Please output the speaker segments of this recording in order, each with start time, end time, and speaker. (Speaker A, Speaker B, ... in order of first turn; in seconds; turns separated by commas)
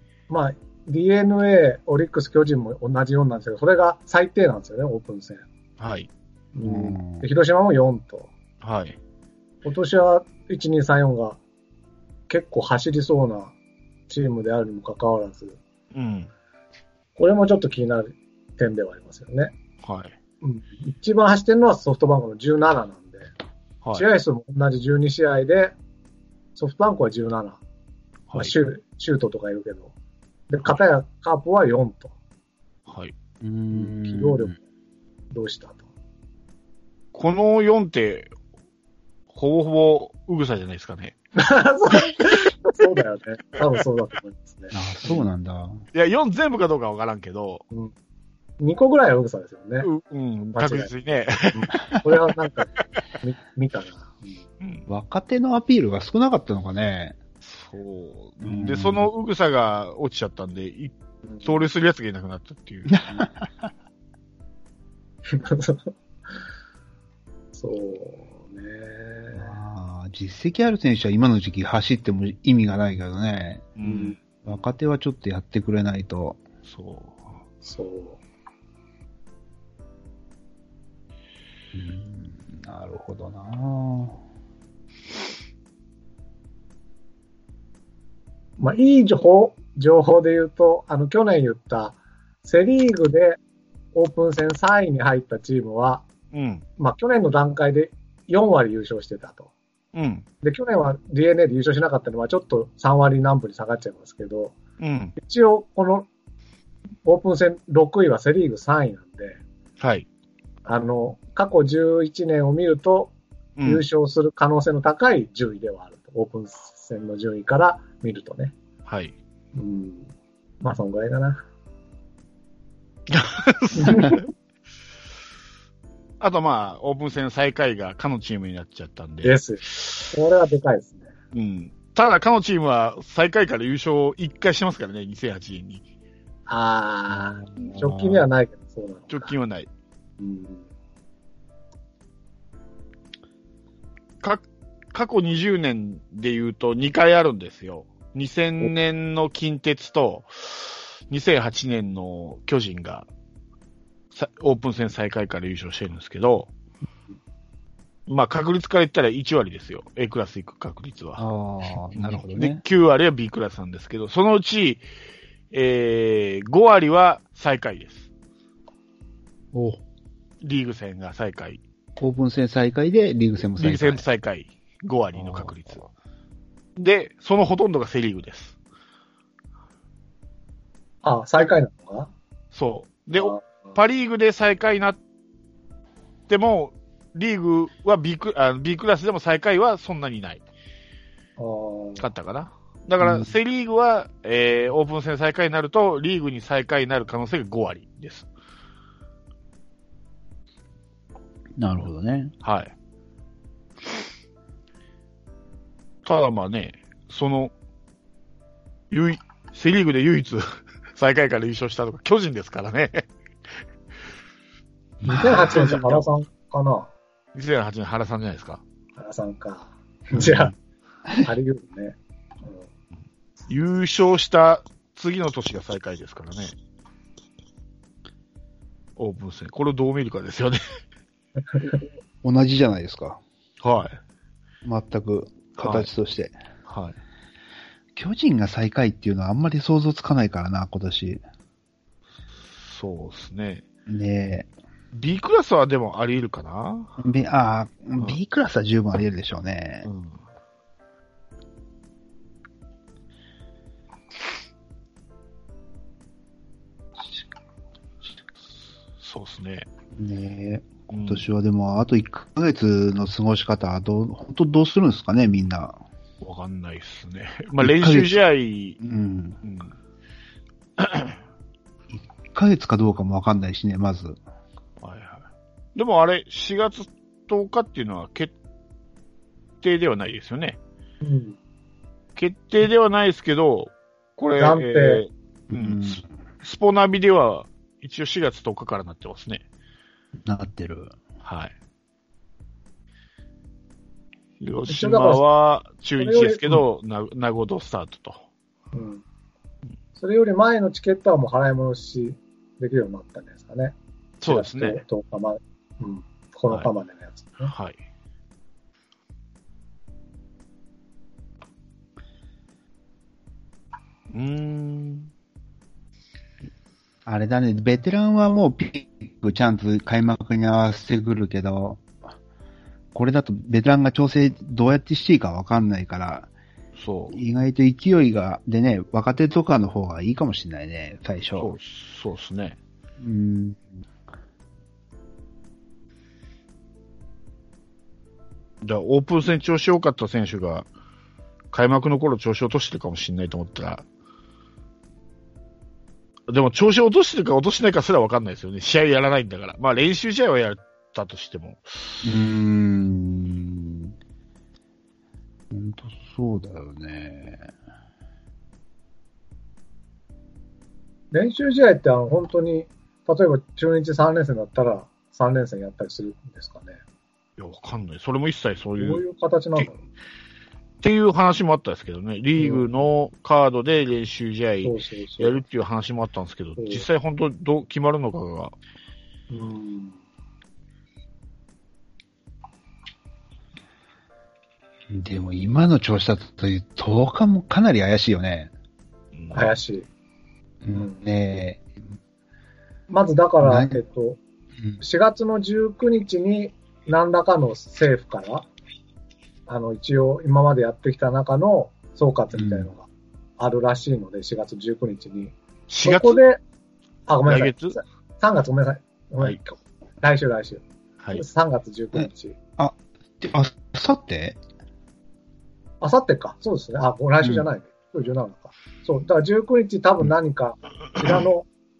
Speaker A: 0.3-5.4, Speaker B: 5.8-6.1, Speaker A: 6.5-8.3, Speaker C: 6.6-7.2, Speaker B: 8.6-9.0, Speaker A: 9.6-11.4, Speaker A: 12.3-13.5, Speaker A: 14.1-15.6, Speaker B: 15.9-16.3, Speaker A: 17.2-19.5, Speaker B: 19.8-20.1, Speaker A: 20.4-23.3, Speaker A: 23.9-25.7, Speaker A: 26.6-27.6, Speaker A: 28.3-29.9, Speaker A: 30.5-32.1, Speaker B: 32.9-33.1, Speaker C: 33.4-34.5, Speaker A: 33.7-34.5, Speaker A: 35.3-35.8, Speaker B: 37.1-38.3, Speaker B: 39.3-41.1, Speaker A: 41.4-45.2, Speaker C: 44.7-45.8, Speaker B: 45.9-47.6, Speaker A: 48.6-49.9, Speaker B: 49.8-51.7, Speaker A: 50.5-50.9, Speaker A: 51.5-52.7, Speaker A: 53.2-54.4, Speaker B: 54.6-54.9, Speaker C: 54.9-57.2, Speaker B: 57.4-63.0, Speaker C: 58.4-59.1, Speaker A: 61.3-61.6, Speaker C: 62.9-63.7, Speaker A: 65.3-65.9, Speaker A: 67.5-69.6, Speaker C: 69.3-73.8, Speaker B: 73.8-74.2, Speaker A: 73.8-74.2, Speaker C: 74.4-76.4, Speaker B: 76.7-77.4, Speaker A: 77.6-78.2, Speaker C: 81.7-84.2, Speaker A: 88.6-93.4, Speaker A: 93.9-96.0, Speaker B: 96.3-96.6, Speaker A: 96.8-99.5, Speaker B: 99.9-100.2, Speaker A: 100.4-104.5, Speaker B: 104.8-105.1, Speaker A: 105.2-106.1, Speaker A: 107.0-109.4, Speaker B: 109.8-110.0, Speaker A: 110.6-118.5, Speaker B: 113.6-113.8, Speaker B: 118.8-119.1, Speaker A: 119.5-120.1, Speaker A: 120.6-121.4, Speaker B: 123.1-124.2, Speaker A: 123.8-124.2, Speaker B: 126.2-130.1, Speaker A: 129.2-131.1, Speaker B: 131.3-135.8, Speaker A: 136.5-139.3, Speaker C: 137.1-138.2, Speaker B: 139.1-139.7, Speaker A: 140.2-140.6, Speaker B: 144.2-153.1, Speaker B: 154.1-156.5, Speaker B: 158.1-161.2, Speaker C: 161.2-162.6, Speaker B: 161.9-164.8, Speaker B: 165.5-168.1, Speaker C: 169.5-169.8, Speaker B: 170.4-171.6, Speaker C: 172.0-174.0, Speaker B: 173.6-175.8, Speaker C: 175.2-175.5, Speaker B: 176.8-178.6, Speaker A: 181.0-182.1, Speaker B: 182.5-185.0, Speaker A: 183.1-183.7, Speaker B: 186.3-190.4, Speaker A: 191.4-192.1, Speaker B: 192.0-198.3, Speaker C: 193.0-193.4, Speaker C: 201.6-202.3, Speaker B: 202.4-202.7, Speaker B: 206.0-207.5, Speaker B: 208.9-213.1, Speaker C: 215.0-215.5, Speaker A: 215.1-216.9, Speaker B: 215.2-216.1, Speaker B: 217.3-218.6, Speaker A: 219.0-220.5, Speaker C: 220.1-220.5, Speaker A: 221.2-222.7, Speaker B: 223.5-226.5, Speaker B: 229.0-230.6, Speaker C: 232.2-233.2, Speaker B: 233.6-234.0, Speaker C: 234.6-236.3, Speaker B: 235.6-235.9, Speaker B: 236.7-236.9, Speaker C: 237.9-241.2, Speaker B: 242.5-243.7, Speaker C: 243.9-244.5, Speaker B: 244.9-246.9, Speaker C: 247.0-249.9, Speaker B: 249.8-250.2, Speaker B: 259.0-259.6, Speaker C: 259.9-265.8, Speaker B: 260.9-261.3, Speaker B: 266.2-268.8, Speaker C: 267.6-268.2, Speaker C: 268.8-269.4, Speaker B: 269.4-269.7, Speaker B: 270.8-271.2, Speaker C: 271.9-274.2, Speaker B: 274.8-278.3, Speaker B: 279.6-280.6, Speaker A: 281.0-281.4, Speaker B: 282.1-289.4, Speaker A: 284.4-285.0, Speaker C: 285.5-286.0, Speaker C: 290.2-291.0, Speaker B: 291.2-291.5, Speaker B: 294.4-298.2, Speaker A: 294.7-295.2, Speaker A: 296.0-296.5, Speaker A: 298.7-299.0, Speaker A: 300.0-307.5, Speaker B: 304.2-304.8, Speaker B: 307.4-307.8, Speaker B: 314.1-315.1, Speaker C: 317.1-321.8, Speaker C: 322.9-326.3, Speaker B: 326.8-327.2, Speaker C: 327.1-331.5, Speaker B: 331.4-332.6, Speaker C: 333.0-333.7, Speaker B: 338.6-340.7, Speaker B: 341.5-343.8, Speaker B: 346.3-352.0, Speaker C: 352.0-353.9, Speaker C: 355.5-357.5, Speaker A: 361.1-366.8, Speaker B: 367.4-369.0, Speaker A: 368.8-369.8, Speaker B: 370.8-378.5, Speaker A: 372.4-372.6, Speaker A: 374.6-375.4, Speaker A: 376.6-376.8, Speaker A: 379.3-380.0, Speaker C: 384.9-388.5, Speaker B: 389.1-389.5, Speaker A: 389.3-389.9, Speaker C: 390.6-391.8, Speaker A: 392.9-394.2, Speaker C: 393.4-393.8, Speaker A: 394.8-398.5, Speaker A: 399.5-402.9, Speaker C: 402.3-402.7, Speaker A: 403.4-406.4, Speaker B: 405.7-406.2, Speaker A: 407.1-410.6, Speaker B: 407.3-407.8, Speaker A: 411.1-412.4, Speaker C: 411.9-414.4, Speaker A: 415.8-421.5